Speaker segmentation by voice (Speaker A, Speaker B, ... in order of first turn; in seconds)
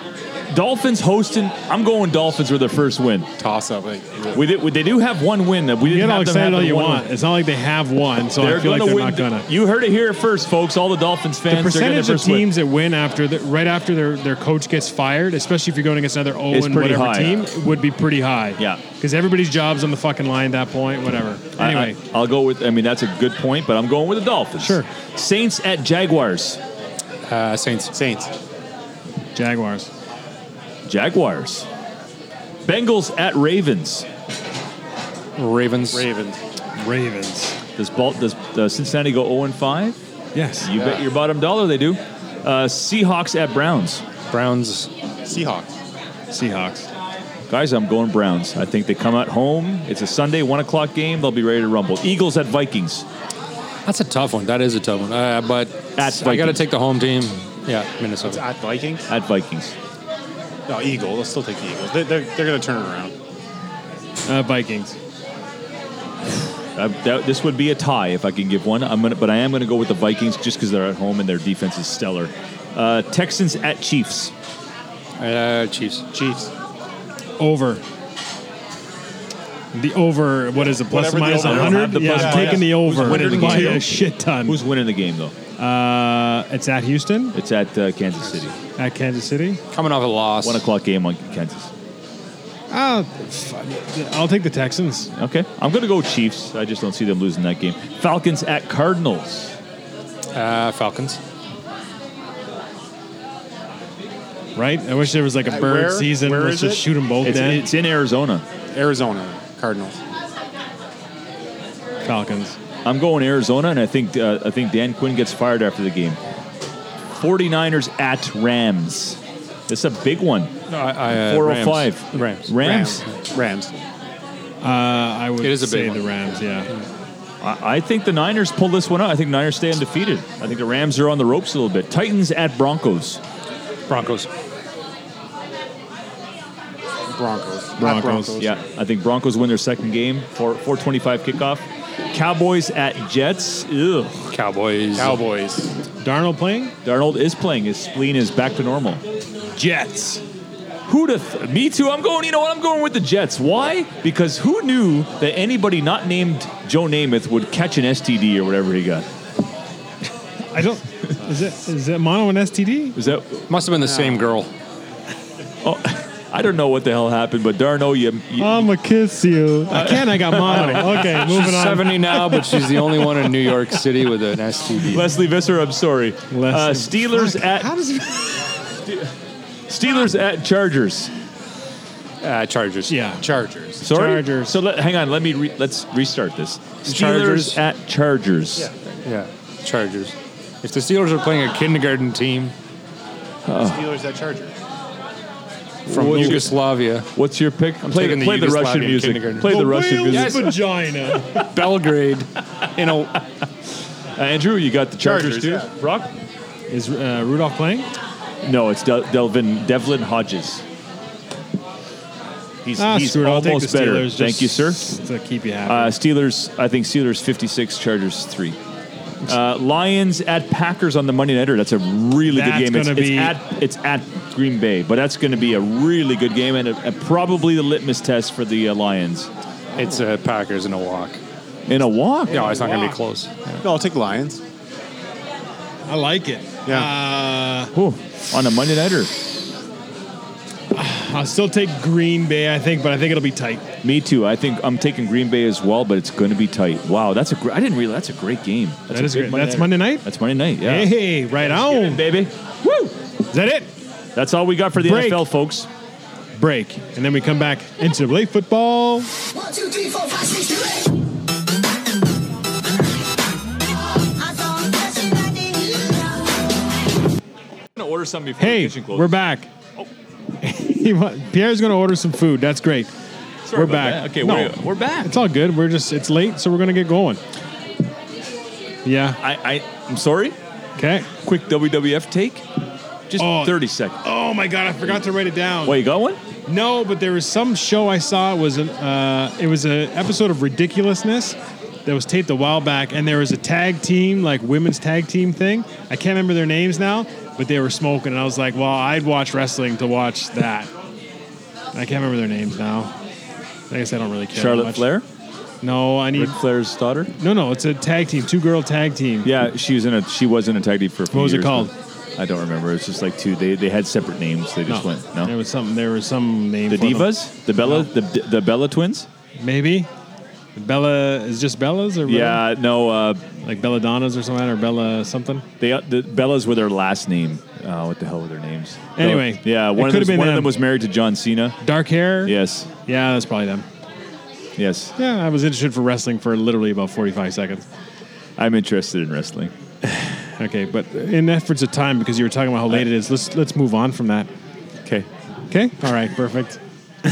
Speaker A: 0.5-3.3, 4.3-7.0, 8.4-12.5, 16.5-17.4, 21.6-26.6, 30.9-31.6, 32.6-34.0, 37.8-40.0, 40.6-44.0, 47.5-53.0, 56.0-56.6, 59.1-59.7, 66.8-74.3, 81.2-83.9, 84.5-85.3, 87.3-88.5, 90.4-91.7, 95.1-99.5, 107.2-108.4, 112.8-116.2, 117.2-120.5, 121.1-123.0, 127.4-133.2, 138.4-144.3, 146.8-149.0, 150.9-159.1, 163.0-163.5, 165.6-168.7, 169.7-171.1, 174.9-177.7, 178.8-179.1, 179.7-181.1, 183.8-188.7, 193.4-193.9, 195.9-196.6, 197.1-200.6, 204.2-206.1, 208.4-210.6, 212.6-214.8, 215.7-218.6, 219.2-229.3, 231.7-232.5, 237.7-239.1, 243.8-252.9, 254.1-255.7, 267.8-269.1, 273.4-275.1, 279.2-280.4, 281.2-282.4, 283.1-284.0, 285.6-286.2, 304.3-305.0, 306.1-307.1, 309.2-315.3, 316.7-319.1, 322.1-323.2, 325.6-331.6, 332.2-332.7, 334.6-334.9, 338.4-339.5
Speaker B: 3.4-4.4, 27.9-28.3, 35.9-36.4, 45.2-45.7, 58.2-59.1, 60.7-63.1, 76.1-76.5, 80.5-83.8, 105.5-106.9, 108.7-110.0, 122.6-123.8, 137.1-138.6, 144.9-145.7, 183.2-183.8, 193.6-194.5, 205.0-205.7, 232.3-233.0, 233.6-234.4
Speaker C: 5.8-9.4, 11.5-22.0, 24.6-24.9, 29.3-29.9, 36.8-37.5, 40.3-40.7, 46.3-46.9, 64.3-65.0, 77.4-77.8, 79.7-84.6, 85.6-87.3, 88.8-89.6, 92.7-95.1, 104.5-107.6, 112.0-112.5, 124.6-126.7, 137.8-138.4, 146.0-146.7, 149.6-150.2, 160.5-163.0, 168.4-173.1, 176.3-178.3, 182.9-183.2, 183.8-184.6, 199.4-201.4, 206.7-207.9, 212.8-215.9, 222.3-223.3, 235.9-237.7, 240.7-243.6, 248.9-250.0, 250.6-252.0, 253.3-253.7, 254.8-255.2, 256.4-259.1, 268.4-269.5, 270.4-272.9, 273.5-277.2, 278.8-279.2, 280.8-281.1, 283.2-285.8, 286.5-300.7, 301.7-302.9, 303.7-304.9, 305.6-306.4, 307.2-309.3, 311.1-311.7, 314.7-317.9, 319.4-319.9, 320.6-322.4, 323.4-325.4, 329.0-330.5, 331.6-332.3, 332.9-333.6, 335.0-337.6, 339.8-344.3, 345.5-346.6
Speaker D: 27.2-27.9, 35.4-36.1, 44.3-44.9, 53.9-58.4, 75.2-76.0, 89.7-90.6, 100.3-101.2, 120.7-122.5, 125.4-126.9, 133.9-134.3, 144.3-145.2, 163.5-164.5, 170.5-175.1, 182.2-183.0, 186.8-187.6, 189.0-192.5, 195.8-197.1, 197.8-199.6, 200.1-200.5, 201.5-203.2, 229.8-231.2, 232.3-233.6
Speaker E: 259.3-260.9, 264.2-266.1